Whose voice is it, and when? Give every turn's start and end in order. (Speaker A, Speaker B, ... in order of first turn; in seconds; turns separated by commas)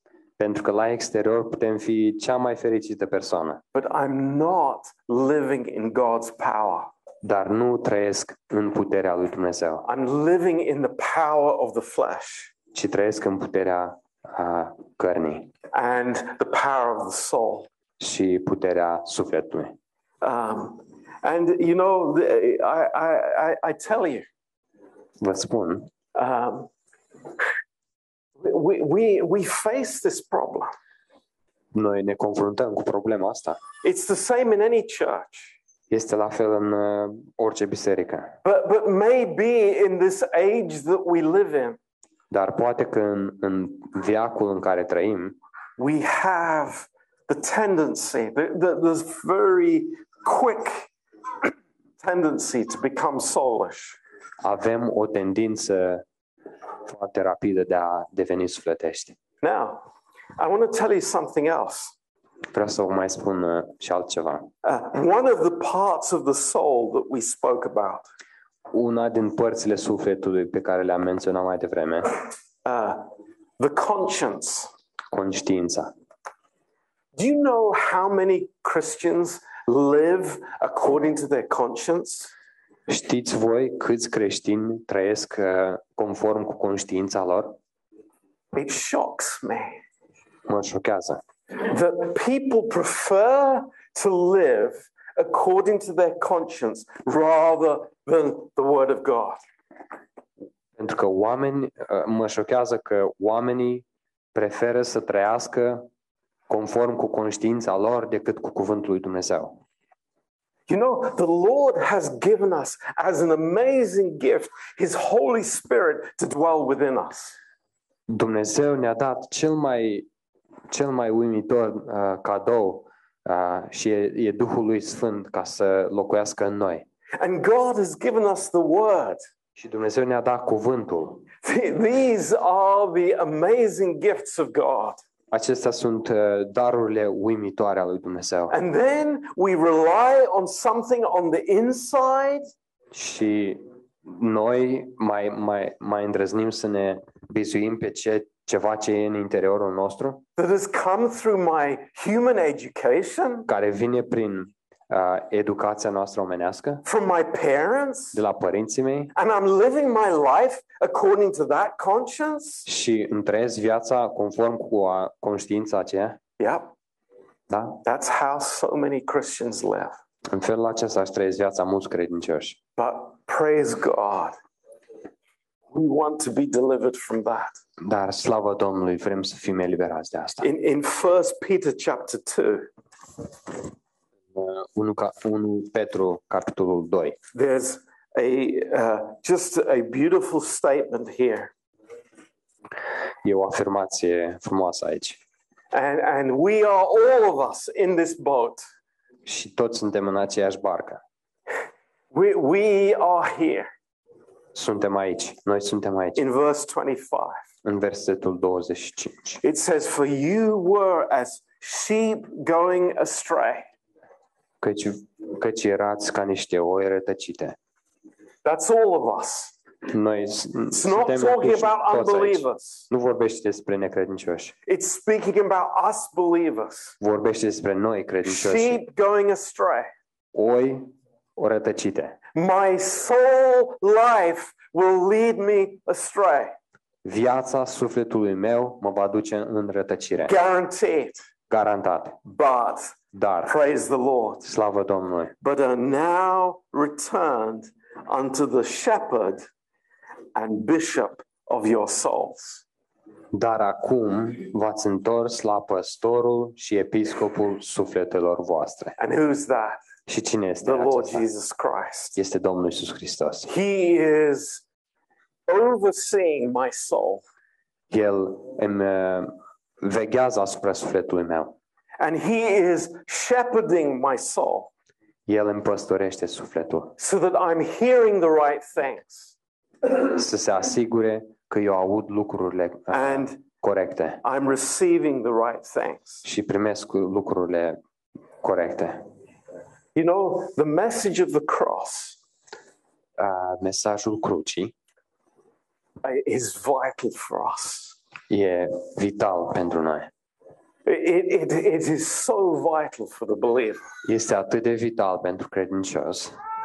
Speaker A: 0.4-3.6, Speaker B: 3.7-6.9, Speaker A: 7.2-9.8, Speaker B: 9.8-12.5, Speaker A: 12.7-15.5, Speaker B: 15.7-17.7, Speaker A: 18.0-19.8, Speaker B: 20.2-24.3, Speaker A: 25.2-25.9, Speaker B: 26.1-26.7, Speaker B: 28.4-30.7, Speaker A: 31.7-33.6, Speaker B: 33.8-35.6, Speaker A: 35.9-38.4, Speaker B: 38.4-41.8, Speaker A: 42.3-45.4, Speaker B: 45.8-50.9, Speaker B: 51.4-54.0, Speaker A: 54.4-56.0, Speaker A: 56.9-59.1, Speaker B: 59.4-59.8, Speaker B: 60.4-62.0, Speaker A: 62.5-64.5, Speaker B: 64.6-68.1, Speaker A: 68.7-72.2, Speaker B: 72.7-73.1, Speaker B: 73.6-74.7, Speaker A: 75.1-75.9, Speaker B: 77.2-82.3, Speaker A: 82.9-87.6, Speaker B: 88.5-89.8, Speaker A: 90.5-91.2, Speaker B: 91.6-99.4, Speaker A: 100.8-105.9, Speaker A: 106.5-109.6, Speaker B: 110.7-117.4, Speaker A: 118.1-120.0, Speaker A: 120.7-126.8, Speaker B: 127.2-129.2, Speaker A: 129.6-131.3, Speaker B: 131.4-135.0, Speaker A: 135.3-138.6, Speaker B: 138.5-142.5, Speaker A: 142.9-150.2, Speaker B: 150.4-153.5, Speaker A: 153.5-156.8, Speaker B: 156.8-158.2, Speaker A: 158.1-159.1, Speaker B: 159.2-162.7, Speaker A: 162.7-166.2, Speaker B: 166.4-166.7, Speaker A: 167.5-167.8, Speaker B: 167.8-169.9, Speaker A: 170.3-172.6, Speaker B: 172.8-174.4, Speaker B: 175.7-177.6, Speaker A: 177.8-180.5, Speaker B: 180.4-182.7, Speaker A: 184.3-187.2, Speaker B: 187.3-191.5, Speaker A: 193.2-195.2, Speaker B: 195.7-198.7, Speaker A: 199.3-201.0, Speaker B: 202.1-203.7, Speaker A: 204.6-206.2, Speaker B: 206.2-207.4, Speaker A: 207.7-209.4, Speaker B: 209.4-213.7, Speaker A: 214.6-217.6, Speaker B: 218.4-219.6, Speaker A: 219.9-224.5, Speaker B: 220.7-222.9, Speaker B: 224.7-226.9, Speaker A: 227.0-228.8, Speaker B: 228.2-229.9, Speaker A: 230.3-232.2, Speaker B: 232.3-236.6, Speaker A: 237.1-240.3, Speaker B: 240.3-241.2, Speaker A: 241.5-242.2, Speaker B: 242.3-244.5, Speaker A: 243.1-243.6, Speaker A: 244.4-245.3, Speaker B: 245.4-249.5, Speaker B: 250.3-252.6, Speaker A: 253.3-258.9, Speaker B: 259.0-259.8, Speaker A: 260.1-261.2, Speaker B: 260.6-262.2, Speaker A: 262.2-263.5, Speaker B: 263.5-264.6, Speaker B: 265.5-267.2, Speaker A: 267.9-271.6, Speaker B: 272.0-274.7, Speaker A: 275.3-276.9, Speaker B: 277.0-279.3, Speaker A: 279.8-284.2, Speaker B: 282.9-283.4, Speaker B: 284.2-286.2, Speaker A: 286.2-287.8, Speaker A: 288.4-289.1, Speaker B: 289.9-292.2, Speaker A: 293.2-294.7, Speaker B: 296.0-298.0, Speaker A: 298.3-300.1, Speaker B: 300.9-303.9, Speaker A: 304.1-306.4